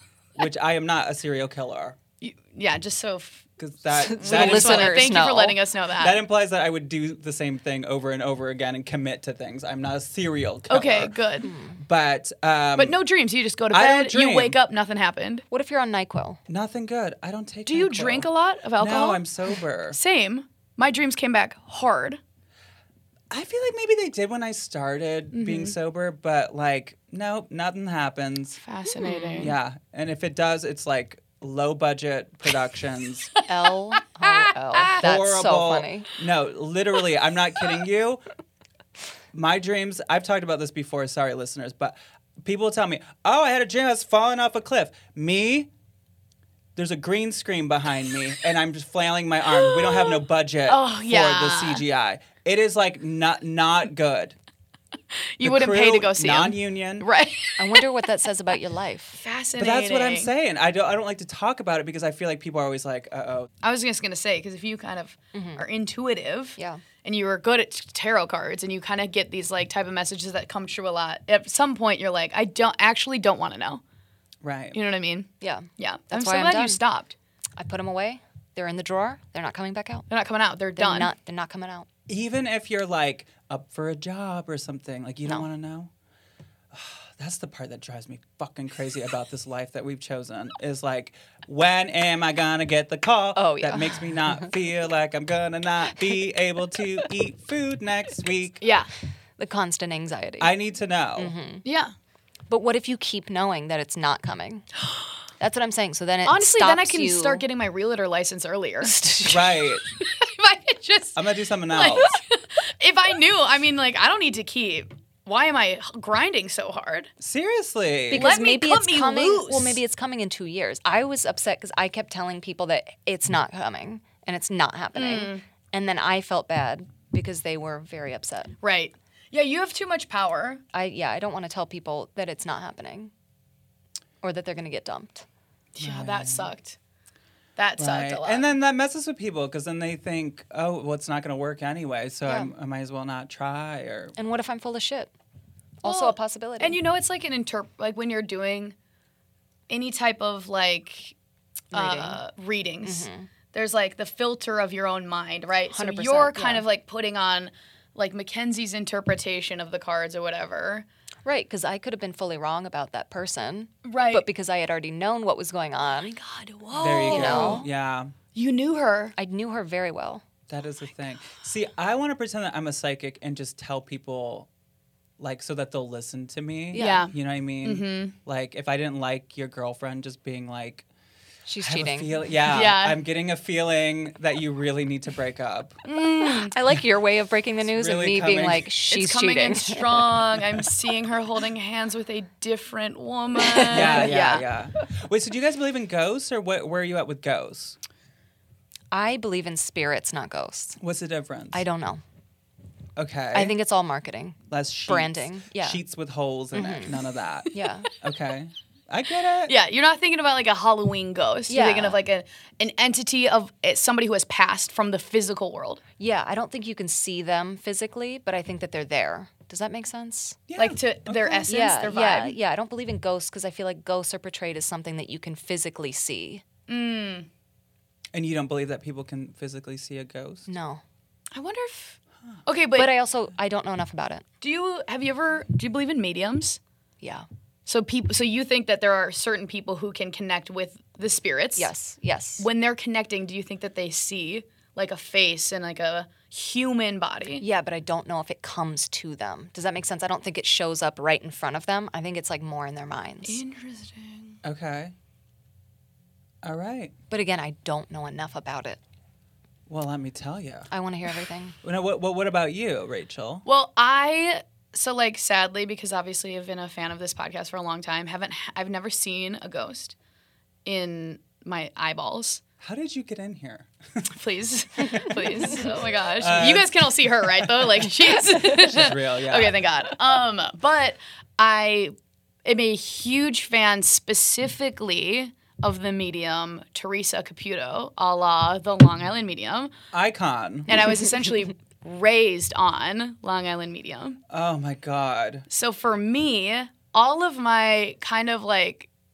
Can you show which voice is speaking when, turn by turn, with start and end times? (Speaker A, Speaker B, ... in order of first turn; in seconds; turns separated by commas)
Speaker A: 0.3-2.0, Speaker B: 2.2-3.5, Speaker A: 3.6-5.2, Speaker C: 3.9-5.6, Speaker B: 4.2-6.2, Speaker A: 6.0-11.1, Speaker B: 10.7-11.5, Speaker C: 11.4-11.8, Speaker A: 11.8-13.0, Speaker B: 12.8-15.4, Speaker A: 13.7-14.6, Speaker C: 15.5-16.4, Speaker A: 16.5-20.0, Speaker B: 17.7-19.2, Speaker B: 19.9-22.2, Speaker A: 23.3-28.6, Speaker B: 25.3-25.8, Speaker B: 28.6-29.5, Speaker C: 29.0-29.5, Speaker A: 29.4-33.3, Speaker C: 33.4-36.1, Speaker B: 34.0-34.9, Speaker A: 35.0-38.2, Speaker A: 39.3-45.7, Speaker A: 46.8-54.4, Speaker B: 49.6-51.8, Speaker B: 55.4-57.9, Speaker A: 55.4-57.1, Speaker C: 57.6-59.2, Speaker B: 59.2-60.3, Speaker A: 59.6-63.5, Speaker B: 63.6-73.8, Speaker C: 65.3-65.6, Speaker C: 66.6-66.8, Speaker A: 74.4-74.8, Speaker B: 74.7-77.2, Speaker C: 75.4-76.8, Speaker C: 77.6-80.1, Speaker B: 80.1-81.1, Speaker C: 80.8-81.9, Speaker A: 82.1-85.9, Speaker A: 86.7-98.6, Speaker C: 93.3-94.5, Speaker B: 98.6-98.9, Speaker C: 99.4-100.5, Speaker A: 100.4-101.3, Speaker C: 101.2-101.6, Speaker B: 101.6-101.9, Speaker C: 102.5-104.7, Speaker C: 105.4-107.4, Speaker B: 106.2-117.1, Speaker A: 109.3-109.8, Speaker A: 111.2-112.2, Speaker A: 117.2-118.3, Speaker C: 118.1-128.6, Speaker B: 118.1-119.8, Speaker B: 125.0-125.4, Speaker B: 128.6-130.6, Speaker C: 130.7-133.1, Speaker C: 134.2-135.3, Speaker B: 135.8-136.8, Speaker A: 135.8-136.5, Speaker B: 137.6-138.5, Speaker A: 137.8-144.2, Speaker C: 142.3-142.5, Speaker C: 144.2-145.1, Speaker C: 145.8-146.8, Speaker B: 145.8-148.8, Speaker B: 149.7-151.2, Speaker C: 151.7-152.2, Speaker B: 151.7-160.9, Speaker C: 152.8-153.3, Speaker C: 155.7-156.7, Speaker C: 161.2-166.2, Speaker B: 163.8-164.3, Speaker B: 166.0-167.7, Speaker C: 166.7-167.7, Speaker A: 166.8-168.1, Speaker B: 168.3-169.2, Speaker C: 169.2-170.2, Speaker A: 170.5-174.5, Speaker A: 175.2-180.9, Speaker C: 176.7-177.1, Speaker B: 176.8-178.2, Speaker C: 181.5-182.2, Speaker A: 181.6-185.8, Speaker B: 182.5-183.0, Speaker B: 185.8-186.5, Speaker C: 186.2-190.1, Speaker A: 187.7-188.7, Speaker B: 188.9-194.4, Speaker C: 193.4-194.2, Speaker A: 193.7-197.8, Speaker C: 198.9-200.8, Speaker A: 200.8-201.6, Speaker C: 201.5-202.0, Speaker A: 203.0-203.6, Speaker C: 203.3-205.8, Speaker A: 204.5-207.5, Speaker C: 206.5-207.0, Speaker C: 207.5-207.9, Speaker A: 208.0-209.5, Speaker B: 209.5-215.8, Speaker C: 211.5-212.0, Speaker C: 216.0-220.4, Speaker A: 220.5-221.5, Speaker B: 220.6-222.4, Speaker C: 221.5-226.4, Speaker B: 226.7-227.3, Speaker A: 228.1-230.5, Speaker C: 230.5-230.8, Speaker B: 231.3-232.9, Speaker C: 232.8-234.2, Speaker B: 234.4-236.6, Speaker C: 237.0-237.3, Speaker B: 237.7-241.7, Speaker C: 241.6-242.5, Speaker B: 242.4-247.4, Speaker C: 247.4-253.4, Speaker B: 253.2-254.4, Speaker A: 254.4-254.9, Speaker A: 256.4-256.9, Speaker C: 257.1-258.8, Speaker A: 259.7-260.7, Speaker C: 260.7-261.6, Speaker A: 261.6-263.5, Speaker B: 263.5-269.9, Speaker B: 270.6-272.4, Speaker A: 272.6-274.1, Speaker B: 274.1-281.9, Speaker A: 274.9-275.4, Speaker A: 276.2-276.7, Speaker A: 278.3-279.6, Speaker B: 282.4-289.7, Speaker A: 289.9-290.8, Speaker B: 290.7-294.2, Speaker A: 294.3-295.5, Speaker B: 295.5-298.9